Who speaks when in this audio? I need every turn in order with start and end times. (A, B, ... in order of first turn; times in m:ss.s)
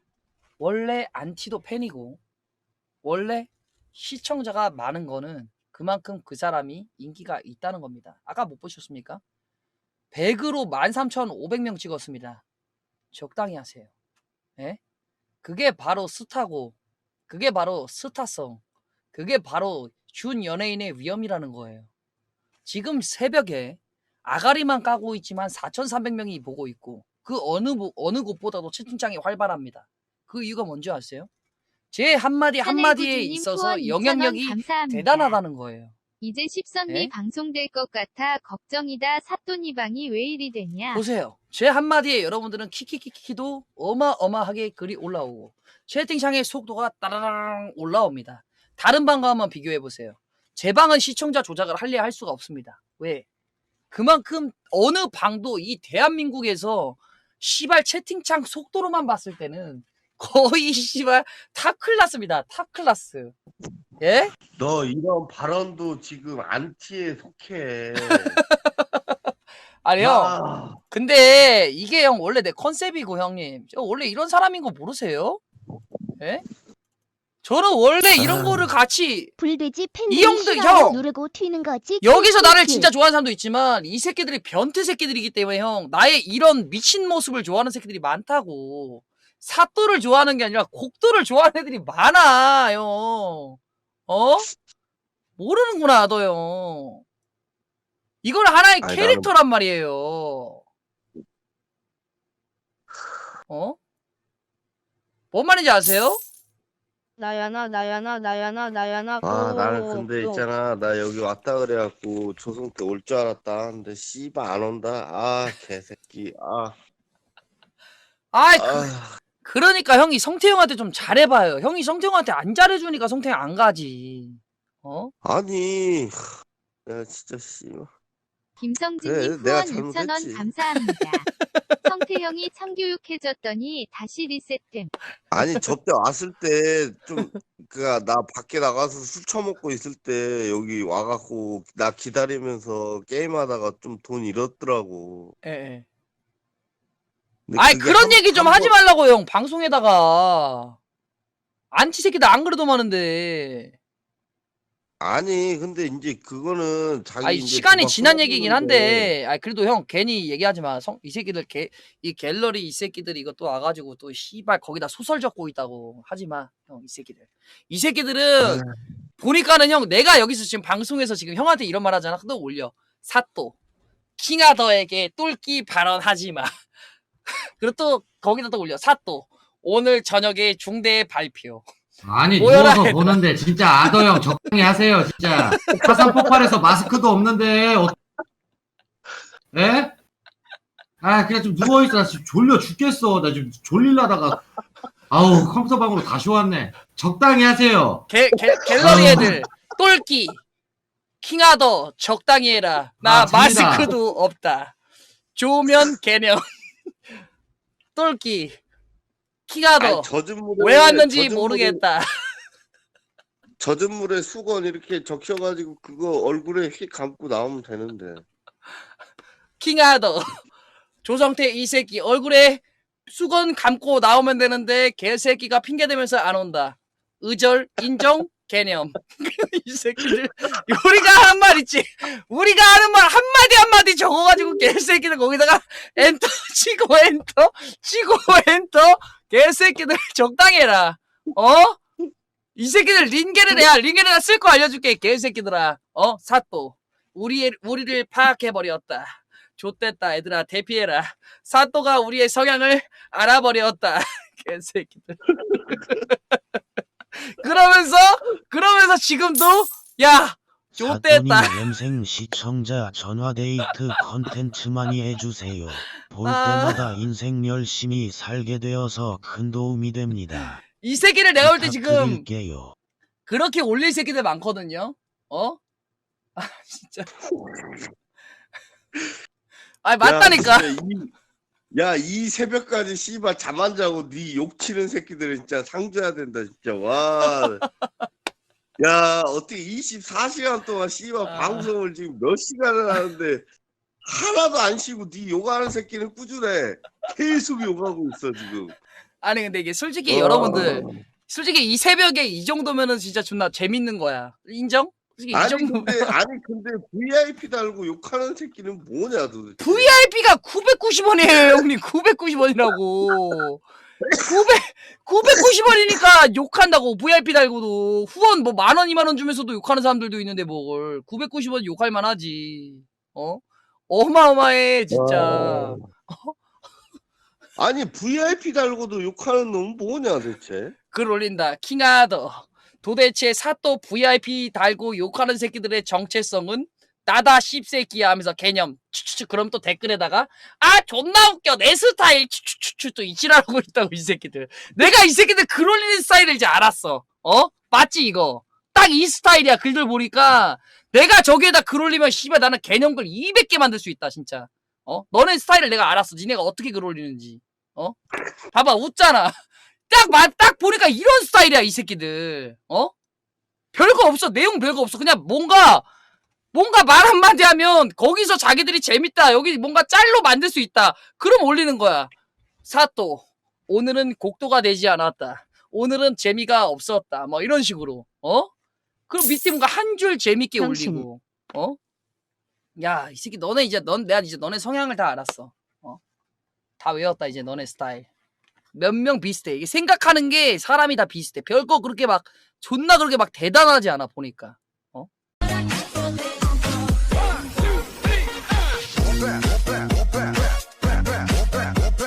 0:00.6-0:02.2 A
0:03.0-0:09.2 A
0:10.1-0:12.4 A
0:13.1-0:13.9 A
0:15.4-0:16.7 A
0:17.3-0:18.6 A
0:19.1-0:21.9 A
0:22.6-0:31.3 A
0:31.9-0:35.9 A
0:32.6-0:35.4 B
0:36.2-0:41.0 B
0:40.9-0:53.2 A
0:53.9-1:03.3 A
1:04.0-1:04.3 A
1:04.5-1:08.4 C
1:08.1-1:09.1 A
1:09.8-1:10.4 A
1:10.0-1:10.8 C
1:10.9-1:15.4 A
1:16.2-1:16.4 A
1:17.4-1:19.4 A
1:19.4-1:22.9 D
1:20.1-1:21.0 A
1:22.0-1:34.5 A
1:35.4-1:37.0 A
1:38.2-1:40.6 A
1:38.8-1:39.3 C
1:43.5-1:43.8 A
1:45.3-1:46.2 A
1:47.2-1:50.4 E
1:49.2-1:56.7 C
1:58.3-1:58.9 A
1:58.6-1:59.2 C
1:59.4-2:05.1 A
2:05.2-2:06.1 C
2:06.8-2:07.9 C
2:08.6-2:11.3 B
2:09.0-2:10.5 C
2:11.5-2:11.8 A
2:11.8-2:14.9 B
2:15.3-2:25.3 C
2:25.4-2:25.8 A
2:27.5-2:28.7 C
2:27.6-2:30.8 A
2:31.7-2:33.7 A
2:35.0-2:39.1 C
2:37.2-2:48.6 A
2:49.2-2:53.6 A
2:54.2-2:56.5 A
2:57.6-3:01.6 A
3:02.0-3:08.0 F
3:02.4-3:03.2 A
3:05.7-3:06.4 C
3:09.5-3:09.9 F
3:11.0-3:14.4 F
3:15.1-3:18.1 F
3:18.1-3:20.4 A
3:18.8-3:19.4 F
3:21.2-3:24.7 A
3:23.0-3:23.9 F
3:25.3-3:26.4 A
3:27.9-3:28.6 A
3:29.5-3:32.1 A
3:29.8-3:31.8 C
3:33.6-3:38.2 C
3:39.6-3:40.2 A
3:41.0-4:01.8 A
4:02.5-4:16.4 A
4:17.3-4:21.6 A
4:20.8-4:30.6 G
4:26.2-4:26.8 A
4:30.8-4:32.2 A
4:31.4-4:32.7 G
4:33.2-4:35.6 A
4:36.4-4:37.1 A
4:37.4-4:37.9 C
4:39.8-4:40.7 A
4:40.0-4:41.1 C
4:41.7-4:47.6 C
4:48.8-4:53.4 C
4:51.3-4:51.7 A
4:54.0-4:58.7 C
4:59.2-5:06.1 A
5:00.1-5:00.9 C
5:05.3-5:09.9 C
5:09.6-5:13.6 A
5:14.2-5:26.4 A
5:24.9-5:25.8 C
5:27.6-5:30.7 C
5:30.9-5:58.0 A
5:58.5-5:59.3 A
5:59.9-6:02.9 A
6:03.7-6:05.8 A
6:06.5-6:12.1 A
6:12.6-6:18.5 A
6:19.1-6:21.8 A
6:20.6-6:21.1 D
6:22.8-6:26.0 A
6:26.8-6:28.1 A
6:28.7-6:35.1 A